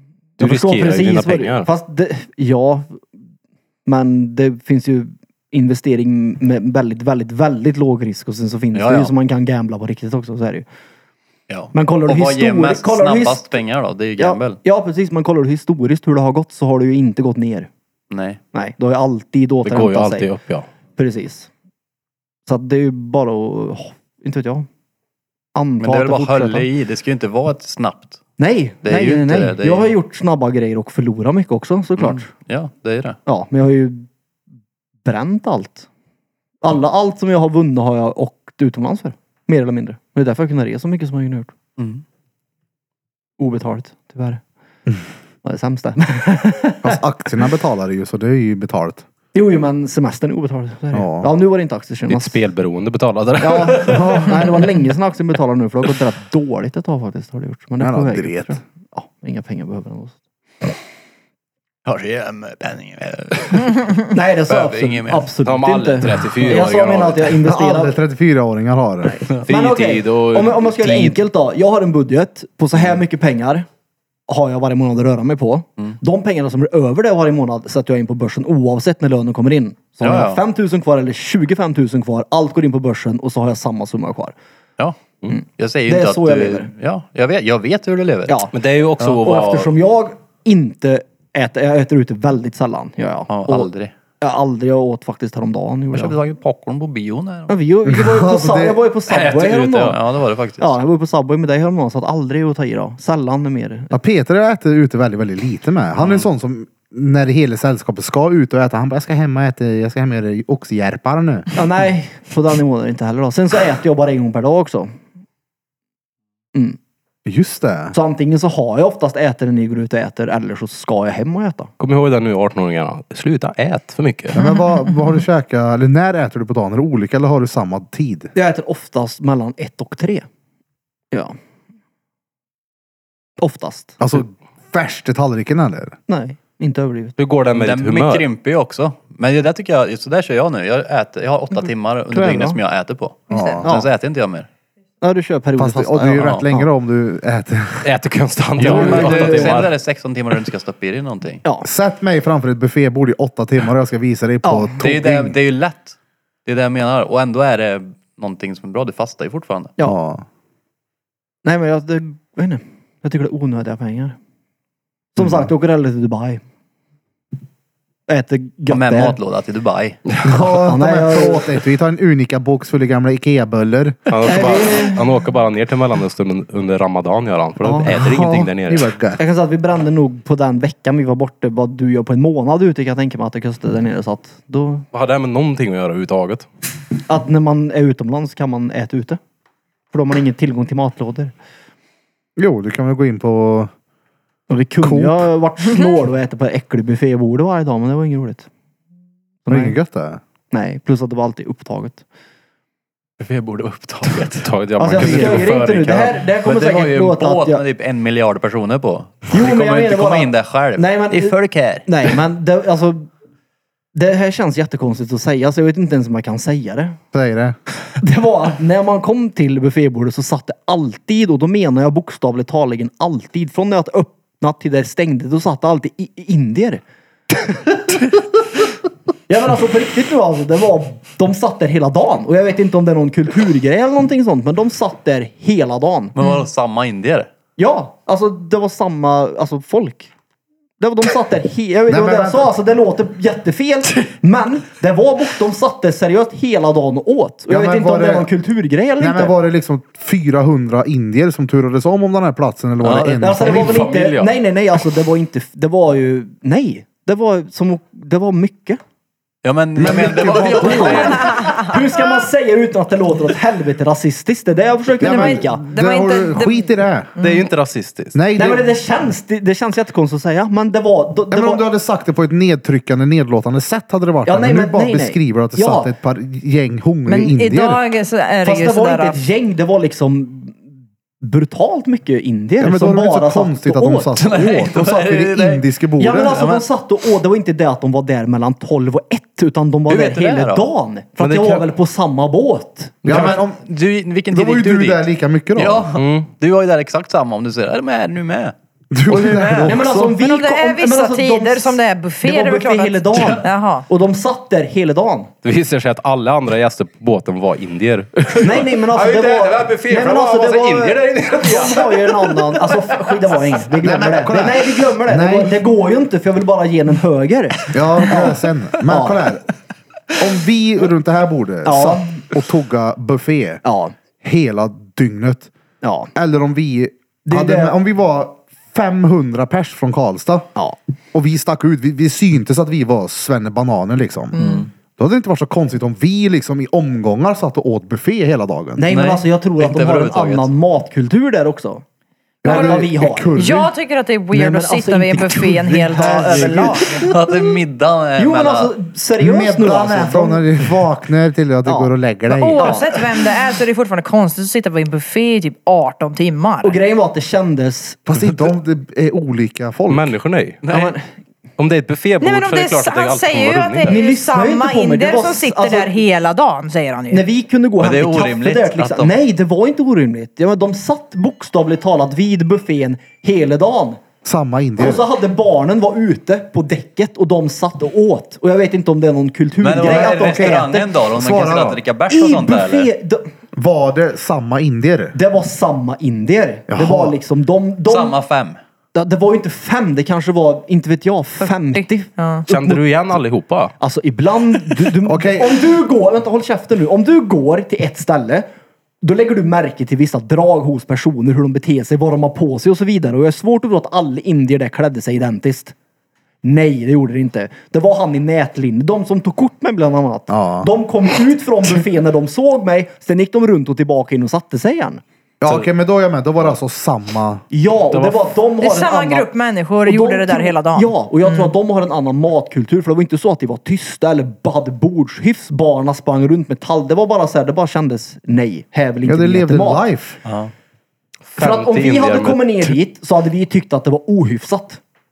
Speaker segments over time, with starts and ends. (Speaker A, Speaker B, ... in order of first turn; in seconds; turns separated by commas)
Speaker A: 0.4-1.7, Speaker B: 0.4-3.0, Speaker B: 3.9-10.7, Speaker C: 8.7-9.1, Speaker C: 11.5-14.6, Speaker B: 11.7-13.5, Speaker B: 14.2-17.7, Speaker C: 18.1-18.4, Speaker B: 18.5-20.3, Speaker A: 19.6-20.6, Speaker B: 20.9-21.5, Speaker B: 22.5-24.7, Speaker B: 25.5-26.7, Speaker C: 25.8-28.2, Speaker B: 28.4-32.3, Speaker C: 28.8-29.9, Speaker C: 32.0-33.2, Speaker B: 33.2-34.1, Speaker B: 35.0-35.9, Speaker B: 36.6-41.5, Speaker C: 41.8-42.0, Speaker B: 43.4-44.4, Speaker B: 45.4-47.0, Speaker D: 46.8-49.0, Speaker B: 49.3-52.4, Speaker D: 50.9-51.3, Speaker A: 52.1-54.3, Speaker B: 53.4-60.2, Speaker D: 53.6-54.5, Speaker D: 57.8-58.6, Speaker C: 61.8-63.9, Speaker B: 64.1-68.0, Speaker C: 64.5-65.3, Speaker A: 65.4-67.3, Speaker D: 67.4-69.2, Speaker B: 69.1-73.7, Speaker A: 69.4-71.2, Speaker B: 74.3-84.3, Speaker C: 80.0-80.4, Speaker B: 85.3-86.7, Speaker C: 85.6-88.4, Speaker B: 88.3-93.7, Speaker A: 88.5-89.7, Speaker C: 93.3-93.9, Speaker B: 94.2-96.2, Speaker C: 95.9-97.5, Speaker B: 97.5-100.0, Speaker D: 97.8-98.8, Speaker A: 99.1-100.0, Speaker C: 99.8-100.7, Speaker B: 100.6-103.9, Speaker D: 103.9-111.5, Speaker C: 106.0-106.2, Speaker B: 111.5-114.9, Speaker D: 117.2-118.0, Speaker B: 117.9-121.7, Speaker A: 121.8-124.4, Speaker D: 124.3-128.3, Speaker B: 128.3-130.2, Speaker B: 133.4-134.0, Speaker D: 134.0-135.9, Speaker B: 136.1-137.2, Speaker A: 137.2-138.3, Speaker C: 137.5-144.5, Speaker B: 142.1-142.6, Speaker E: 143.3-143.6, Speaker D: 143.3-143.7, Speaker B: 143.6-143.9, Speaker B: 145.0-146.7, Speaker D: 145.6-147.9, Speaker C: 146.2-146.4, Speaker A: 147.8-149.7, Speaker C: 148.6-151.4, Speaker B: 148.6-149.7, Speaker D: 151.6-155.4, Speaker B: 154.4-154.8, Speaker C: 154.8-159.7, Speaker D: 159.8-160.2, Speaker B: 161.4-164.2, Speaker B: 165.1-166.4, Speaker B: 168.1-169.2, Speaker C: 168.7-170.1, Speaker D: 170.2-174.0, Speaker B: 170.5-171.6, Speaker A: 174.1-178.9, Speaker B: 174.2-175.1, Speaker B: 177.6-177.9, Speaker D: 177.9-179.2, Speaker B: 179.2-184.8, Speaker A: 184.9-186.5, Speaker B: 187.1-189.2, Speaker B: 189.9-191.3, Speaker D: 192.4-193.7, Speaker B: 194.5-198.5, Speaker D: 194.8-195.3, Speaker B: 199.4-199.8, Speaker D: 199.5-200.2, Speaker B: 200.5-202.0, Speaker C: 203.2-205.4, Speaker A: 204.1-206.2, Speaker B: 204.8-207.6, Speaker C: 206.4-212.2, Speaker B: 209.3-213.1, Speaker B: 213.9-217.0, Speaker D: 217.1-217.6, Speaker B: 218.0-226.8, Speaker B: 229.3-236.2, Speaker C: 236.2-237.3, Speaker B: 237.6-240.1, Speaker B: 240.8-249.3, Speaker D: 241.9-242.5, Speaker D: 247.5-248.3, Speaker D: 249.0-253.9, Speaker C: 252.8-253.7, Speaker A: 253.2-254.3, Speaker B: 253.2-258.8, Speaker C: 259.4-261.6, Speaker D: 259.8-261.1, Speaker B: 259.8-265.6, Speaker E: 261.3-261.7, Speaker D: 265.0-267.1, Speaker E: 265.0-267.5, Speaker A: 267.2-268.1, Speaker D: 268.1-268.6, Speaker B: 268.4-271.6, Speaker D: 271.3-277.8, Speaker B: 274.2-275.9, Speaker E: 277.1-279.2, Speaker B: 278.4-280.6, Speaker B: 281.2-284.2, Speaker D: 282.6-286.4, Speaker C: 284.2-286.7, Speaker B: 286.0-293.0, Speaker C: 289.9-290.7, Speaker A: 291.2-291.7, Speaker D: 293.0-293.6, Speaker A: 293.1-293.4, Speaker C: 293.1-298.5, Speaker D: 294.3-295.9, Speaker A: 295.9-296.3, Speaker D: 298.9-300.1, Speaker C: 299.1-299.8, Speaker B: 299.7-305.3, Speaker E: 300.1-303.9, Speaker C: 303.1-303.4, Speaker A: 305.4-313.4, Speaker B: 308.4-319.3, Speaker D: 313.8-315.6, Speaker D: 317.7-319.4, Speaker D: 320.2-323.6, Speaker B: 321.6-322.2, Speaker B: 323.6-323.9, Speaker D: 324.2-325.5, Speaker B: 325.8-326.1, Speaker D: 326.1-330.5, Speaker B: 327.2-327.7, Speaker D: 331.1-334.4, Speaker E: 334.3-334.7, Speaker C: 334.4-334.7, Speaker D: 335.0-338.8, Speaker B: 338.8-341.8, Speaker C: 338.9-340.5, Speaker D: 342.4-343.7, Speaker B: 342.4-343.4, Speaker E: 342.4-342.8, Speaker E: 343.4-347.1, Speaker B: 344.3-346.8, Speaker D: 345.9-347.0, Speaker C: 346.9-348.7, Speaker B: 348.2-350.4, Speaker D: 349.2-352.8, Speaker B: 351.6-351.9, Speaker E: 352.3-356.8, Speaker B: 352.6-353.1, Speaker B: 356.6-358.0, Speaker D: 358.1-360.1, Speaker A: 359.9-360.6, Speaker C: 360.6-361.0, Speaker B: 360.7-361.0, Speaker A: 361.6-364.0, Speaker E: 362.2-367.2, Speaker B: 363.8-365.9, Speaker B: 367.1-374.0, Speaker C: 367.8-369.1, Speaker D: 374.2-375.0, Speaker B: 374.8-380.9, Speaker C: 379.6-382.9, Speaker D: 379.8-381.8, Speaker B: 382.1-383.3, Speaker D: 383.5-385.2, Speaker B: 385.1-388.1, Speaker D: 386.7-387.1, Speaker C: 387.9-388.6, Speaker B: 388.9-392.8, Speaker E: 391.4-392.4, Speaker A: 392.5-393.7, Speaker B: 393.8-398.4, Speaker D: 395.0-395.7, Speaker B: 399.0-405.7, Speaker B: 406.4-415.0, Speaker D: 410.3-410.7, Speaker D: 415.4-417.4, Speaker B: 417.5-419.3, Speaker A: 417.9-418.3, Speaker E: 418.6-421.5, Speaker B: 419.8-429.8, Speaker D: 429.1-430.2, Speaker C: 430.2-430.5, Speaker A: 431.3-432.8, Speaker B: 431.4-434.8